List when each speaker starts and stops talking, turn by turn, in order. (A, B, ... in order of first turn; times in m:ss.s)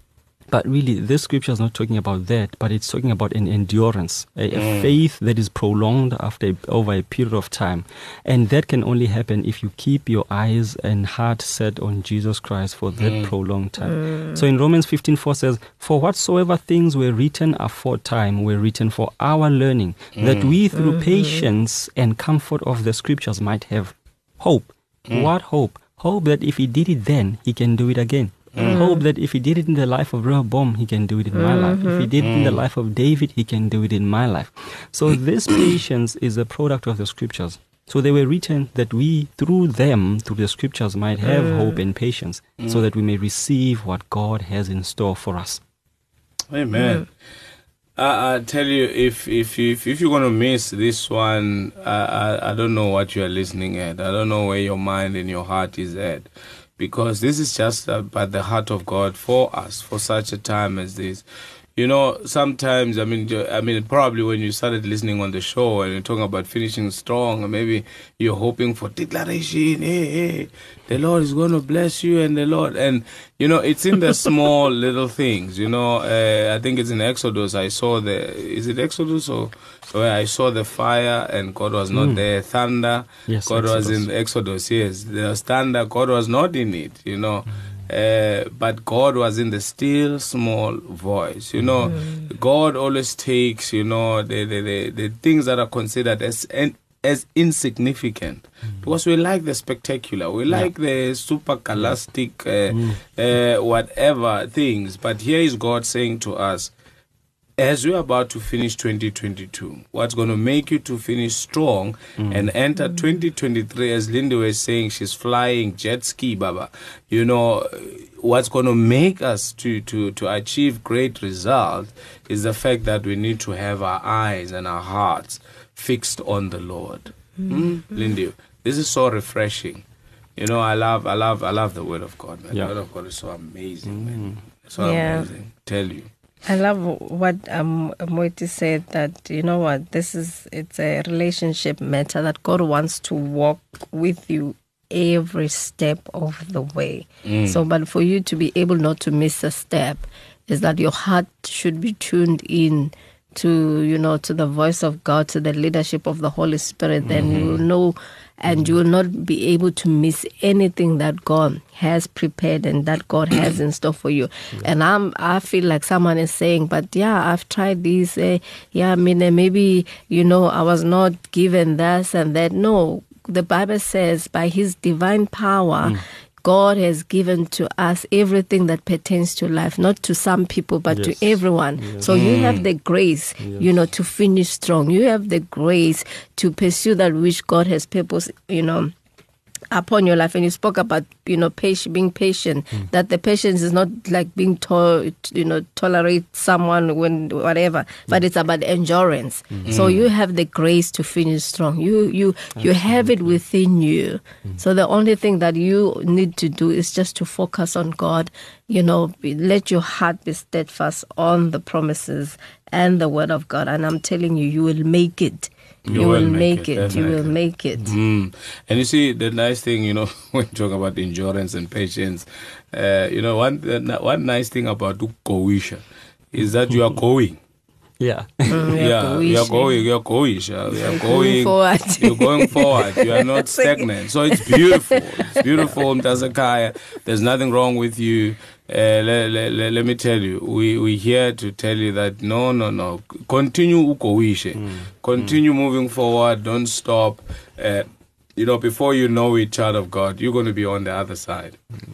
0:00.5-0:45.6 A
0:04.5-0:04.9 B
0:13.0-0:13.3 B
0:14.0-0:14.3 C
0:20.1-0:20.5 B
0:20.8-0:21.4 C
0:28.5-0:28.8 B
0:28.6-0:29.0 C
0:31.3-0:32.0 C
0:32.2-0:32.6 B
0:46.5-0:47.1 B
0:48.0-1:01.2 B
1:01.8-1:46.7 B
1:21.9-1:22.2 A
1:23.3-1:24.0 A
1:42.7-1:43.0 A
1:47.6-2:09.8 B
1:52.2-1:52.5 A
2:10.4-2:16.1 B
2:13.9-2:14.4 A
2:14.8-2:15.3 C
2:16.4-3:08.9 C
2:27.2-2:27.6 B
2:37.1-2:37.6 B
3:00.9-3:02.1 A
3:02.1-3:02.6 B
3:03.4-3:03.7 A
3:09.7-3:37.9 C
3:19.5-3:19.8 A
3:19.7-3:20.1 B
3:22.6-3:23.3 A
3:35.8-3:47.4 B
3:35.9-3:36.2 A
3:48.0-3:48.7 A
3:48.5-3:49.8 C
3:48.8-4:11.6 B
3:50.8-3:55.4 C
4:04.6-4:04.9 A